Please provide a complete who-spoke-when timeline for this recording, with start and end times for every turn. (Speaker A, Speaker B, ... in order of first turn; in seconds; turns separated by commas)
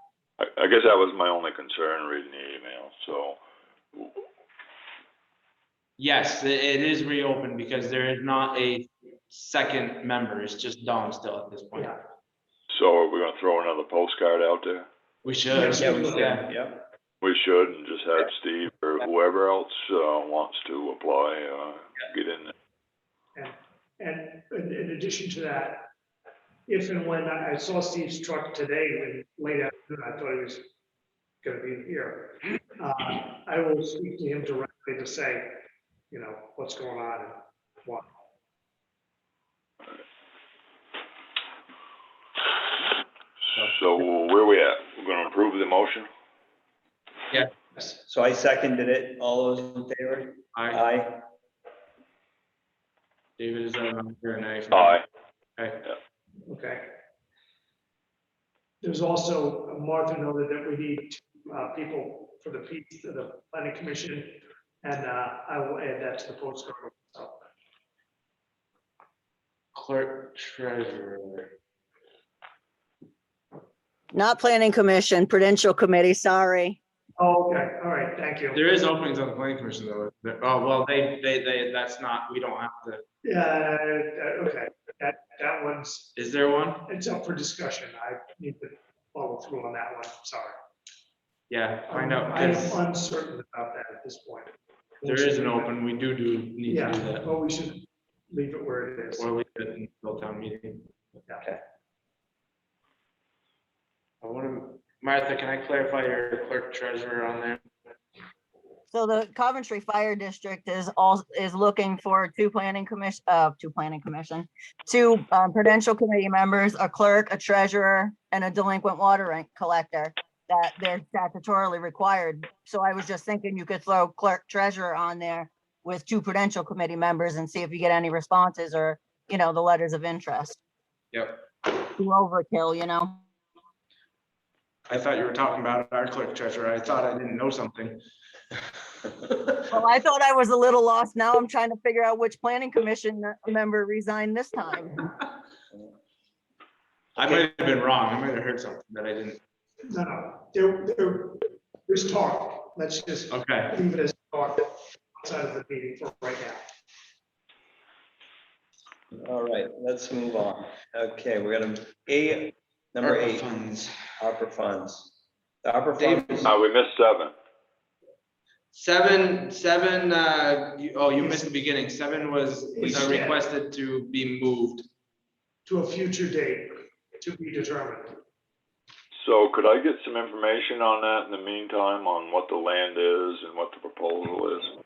Speaker A: 0.4-3.4, Speaker B: 6.0-11.9, Speaker A: 12.7-14.9, Speaker B: 15.2-16.5, Speaker C: 15.5-16.2, Speaker D: 15.8-16.8, Speaker A: 17.2-22.5, Speaker C: 23.3-25.9, Speaker C: 26.7-30.6, Speaker C: 31.4-35.6, Speaker C: 36.1-38.0, Speaker A: 43.6-46.1, Speaker D: 47.8-51.2, Speaker B: 50.5-50.8, Speaker B: 53.4-55.0, Speaker A: 54.7-55.0, Speaker B: 55.6-55.9, Speaker C: 56.5-56.9, Speaker C: 58.8-67.4, Speaker B: 69.7-71.5, Speaker E: 74.1-76.8, Speaker C: 77.2-78.6, Speaker B: 78.5-83.0, Speaker C: 83.2-86.1, Speaker B: 86.1-86.8, Speaker C: 86.8-90.5, Speaker B: 91.5-92.8, Speaker C: 91.9-95.7, Speaker B: 95.0-97.3, Speaker C: 96.7-99.3, Speaker B: 99.2-100.9, Speaker B: 104.2-107.6, Speaker E: 108.9-130.6, Speaker B: 131.1-131.4, Speaker E: 131.9-133.2, Speaker B: 134.9-138.0, Speaker E: 139.7-145.1, Speaker B: 147.2-149.4, Speaker C: 149.9-156.6, Speaker B: 153.3-153.8, Speaker D: 159.1-163.5, Speaker B: 163.0-163.9, Speaker D: 164.2-165.1, Speaker D: 165.6-166.5, Speaker B: 166.0-166.5, Speaker A: 166.4-167.3, Speaker B: 168.7-174.8, Speaker C: 172.7-173.3, Speaker D: 172.8-173.3, Speaker C: 175.7-178.2, Speaker A: 179.2-184.7